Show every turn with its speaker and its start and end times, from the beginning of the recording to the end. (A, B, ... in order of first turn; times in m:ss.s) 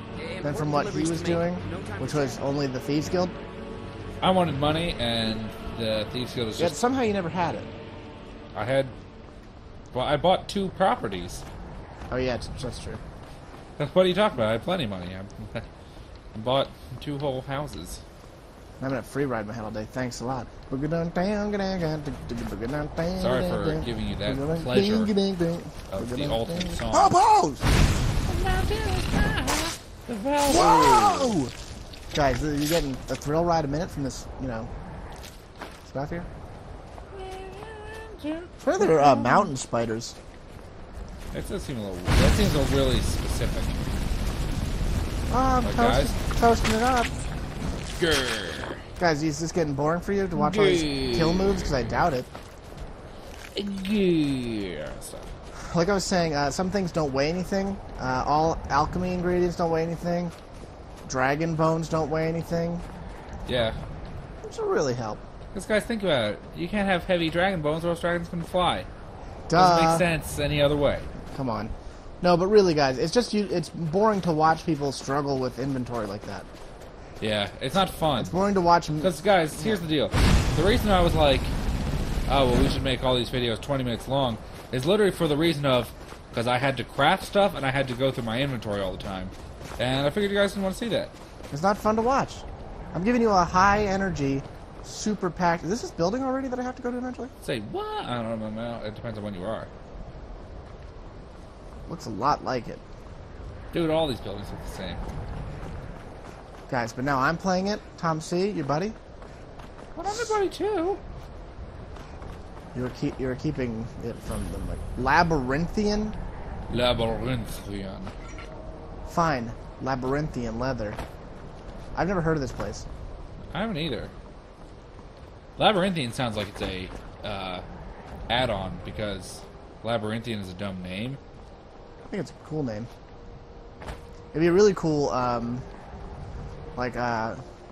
0:00.4-0:03.3 A
0:04.2-0:06.8 B
0:06.6-0:07.7 A
0:08.5-0:08.9 B
0:09.9-0:11.4 B
0:12.1-0:13.0 A
0:13.8-0:15.6 B
0:16.3-0:18.0 B
0:18.8-0:27.7 A
0:23.2-0:25.1 B
0:25.9-0:27.2 B
0:28.2-0:31.4 B
0:30.4-0:31.5 A
0:32.1-0:34.7 A
0:35.8-0:36.3 A
0:37.1-0:39.5 B
0:38.6-0:40.2 A
0:41.3-0:43.8 B
0:45.3-0:47.2 A
0:45.6-0:46.2 B
0:47.9-0:48.8 B
0:49.0-0:52.3 A
0:50.4-0:51.8 B
0:53.5-0:55.3 B
0:55.7-1:00.3 A
1:01.0-1:02.8 A
1:03.5-1:03.8 B
1:04.4-1:05.2 A
1:05.5-1:08.9 B
1:09.5-1:10.1 A
1:09.6-1:11.1 B
1:11.3-1:16.5 A
1:17.2-1:18.3 B
1:18.2-1:19.8 A
1:19.0-1:21.5 B
1:22.3-1:31.1 B
1:31.5-1:37.3 A
1:37.4-1:39.7 B
1:41.9-1:42.8 A
1:43.7-1:45.0 B
1:46.7-1:49.0 A
1:49.9-1:51.0 B
1:52.7-1:56.2 A
1:56.7-1:58.1 B
1:59.1-2:01.0 A
2:01.9-2:02.8 A
2:03.5-2:04.1 B
2:05.6-2:07.6 B
2:08.3-2:11.2 B
2:12.1-2:12.9 A
2:14.3-2:15.6 A
2:16.8-2:17.4 A